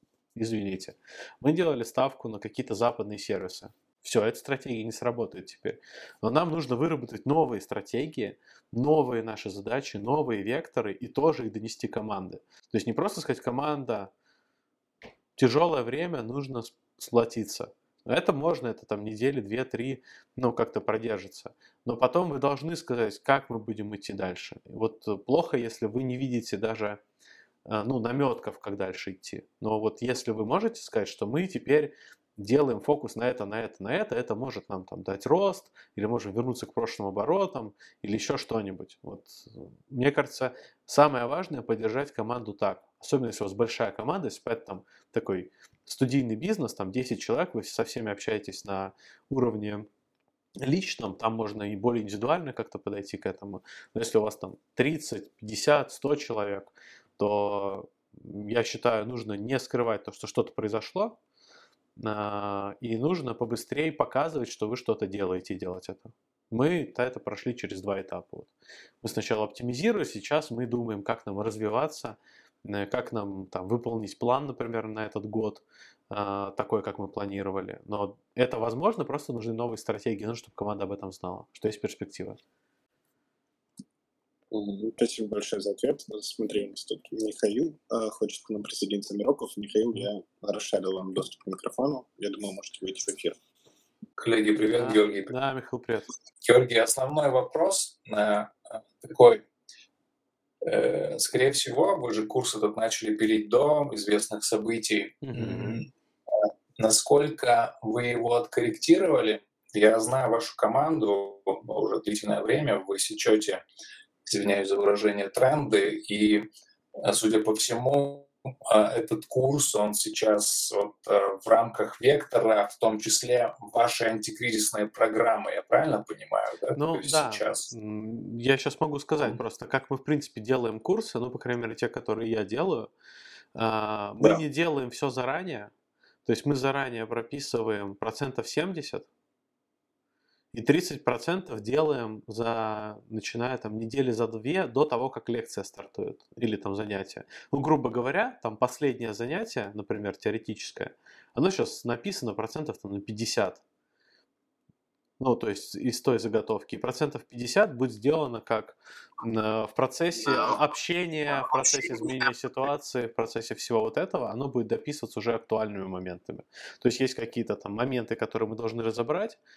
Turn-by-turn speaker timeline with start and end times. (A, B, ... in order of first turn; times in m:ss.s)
0:00.4-0:14.1 A
0:15.4-0:27.0 A
0:27.7-0:49.9 A
0:50.6-1:01.2 A
1:02.0-1:22.4 A
1:24.5-1:33.4 B
1:34.2-1:35.3 C
1:34.6-1:36.1 A
1:36.4-1:39.4 C
1:40.6-1:45.9 C
1:45.2-1:45.8 A
1:46.4-1:53.6 C
1:54.3-1:56.5 C
1:57.0-2:07.7 C
2:06.8-2:12.9 A
2:13.6-2:15.7 A
2:16.2-2:19.1 A
2:20.5-2:33.6 A
2:35.2-2:49.4 A